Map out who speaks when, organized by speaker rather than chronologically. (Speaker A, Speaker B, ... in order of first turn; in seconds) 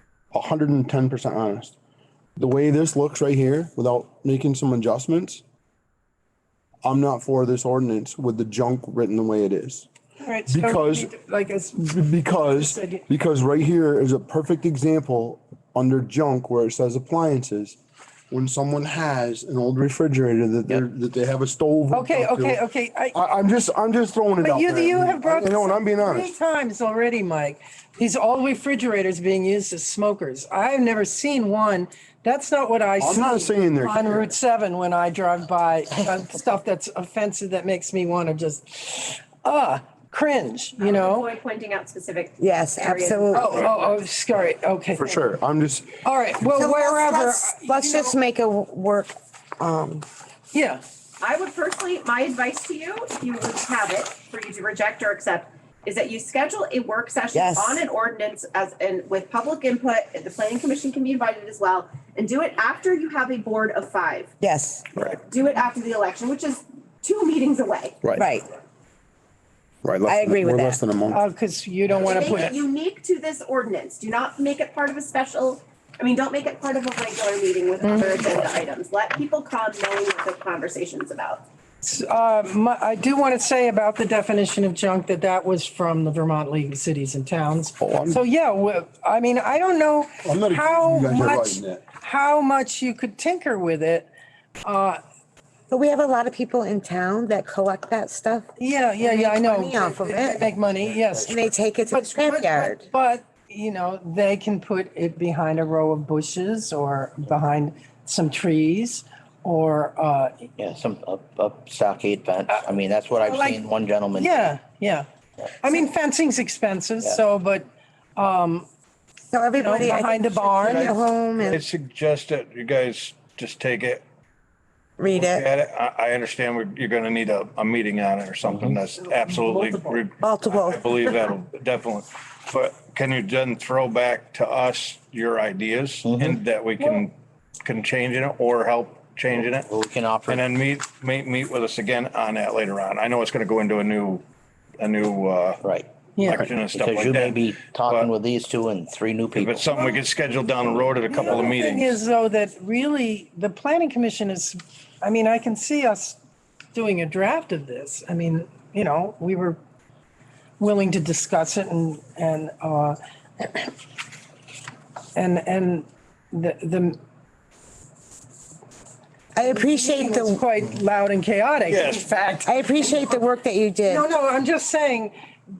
Speaker A: 0.3-1.7, 2.4-5.4, 6.8-9.9, 10.5-11.1, 11.8-17.8, 18.3-22.6, 23.1-26.3, 33.0-34.2, 45.0-46.0, 69.8-71.2, 87.8-88.2, 90.2-91.8
Speaker B: 10.2-13.0, 21.9-23.2, 24.4-41.3, 43.3-45.2, 46.0-48.1, 50.5-50.8, 71.1-72.6, 77.8-78.3, 81.8-94.1, 94.6-95.0, 98.6-110.5, 113.2-115.1, 115.6-118.7, 119.6-121.0, 129.2-130.0, 146.2-146.5, 151.1-156.2, 156.7-159.6, 160.6-163.7, 165.1-167.0, 169.4-172.0, 172.8-173.2, 173.8-175.1
Speaker C: 40.8-43.7, 51.2-64.3, 65.2-68.1, 72.0-81.4
Speaker D: 42.4-43.5, 46.5-50.0, 57.3-57.8, 64.4-64.9, 68.1-68.5, 70.0-70.8, 95.7-98.5, 99.0-100.4, 101.2-102.8, 119.3-121.6, 125.0-125.5, 130.2-130.9, 169.3-170.4, 172.4-174.1
Speaker E: 110.6-114.5, 128.4-128.8, 136.0-136.4, 139.3-140.4, 145.6-145.9, 146.7-149.7, 150.7-151.5
Speaker F: 120.6-124.0, 125.0-137.1, 137.6-139.7, 140.3-144.2, 144.8-145.6, 146.2-148.1, 149.3-152.0, 171.7-172.7